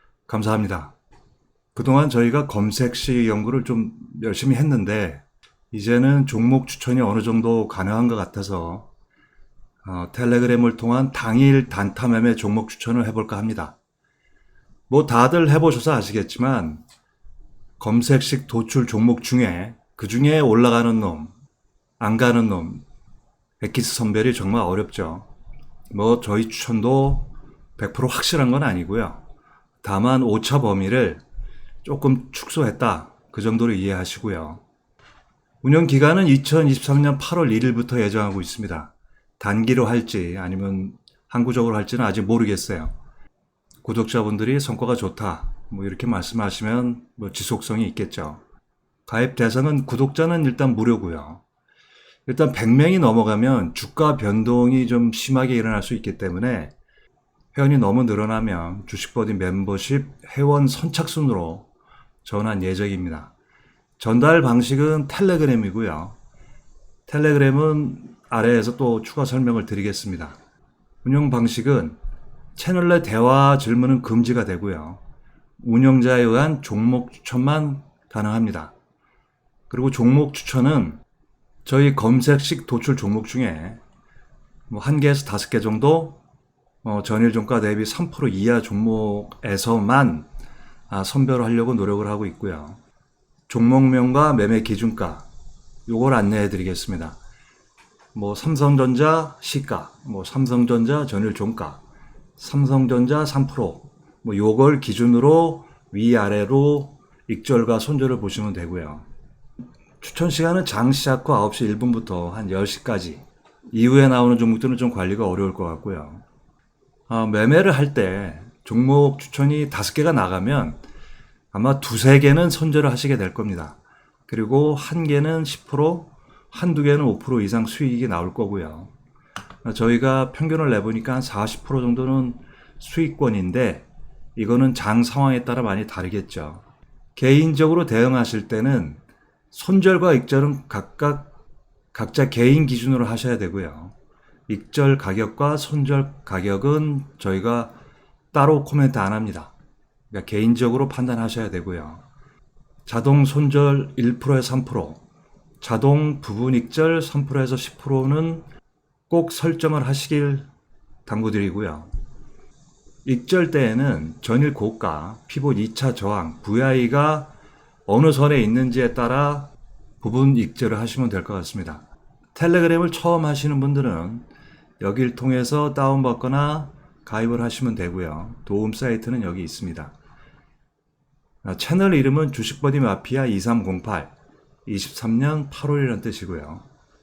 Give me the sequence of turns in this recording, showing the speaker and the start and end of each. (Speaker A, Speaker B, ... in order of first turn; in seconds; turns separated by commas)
Speaker A: 0.3-0.9, Speaker A: 1.7-8.9, Speaker A: 9.8-13.8, Speaker A: 14.9-16.8, Speaker A: 17.8-21.3, Speaker A: 22.0-22.8, Speaker A: 23.6-25.3, Speaker A: 25.9-29.2, Speaker A: 29.8-31.2, Speaker A: 31.8-34.6, Speaker A: 35.6-42.9, Speaker A: 43.8-48.4, Speaker A: 49.1-51.4, Speaker A: 52.3-56.7, Speaker A: 57.5-61.7, Speaker A: 62.2-63.3, Speaker A: 64.0-66.2, Speaker A: 67.1-70.4, Speaker A: 71.0-72.0, Speaker A: 72.5-75.0, Speaker A: 75.6-78.7, Speaker A: 79.7-81.0, Speaker A: 81.6-83.8, Speaker A: 84.7-86.2, Speaker A: 86.8-90.3, Speaker A: 90.9-92.8, Speaker A: 93.5-95.2, Speaker A: 95.9-97.2, Speaker A: 98.1-101.8, Speaker A: 102.4-109.0, Speaker A: 110.0-116.2, Speaker A: 117.1-120.8, Speaker A: 121.5-128.9, Speaker A: 129.6-136.6, Speaker A: 137.2-141.3, Speaker A: 141.9-143.9, Speaker A: 144.5-147.7, Speaker A: 148.3-149.5, Speaker A: 150.1-152.0, Speaker A: 152.8-155.0, Speaker A: 155.6-158.4, Speaker A: 159.1-160.5, Speaker A: 161.1-161.9, Speaker A: 163.0-167.3, Speaker A: 167.8-171.8, Speaker A: 172.3-174.2, Speaker A: 174.8-179.9, Speaker A: 181.4-184.1, Speaker A: 184.7-186.6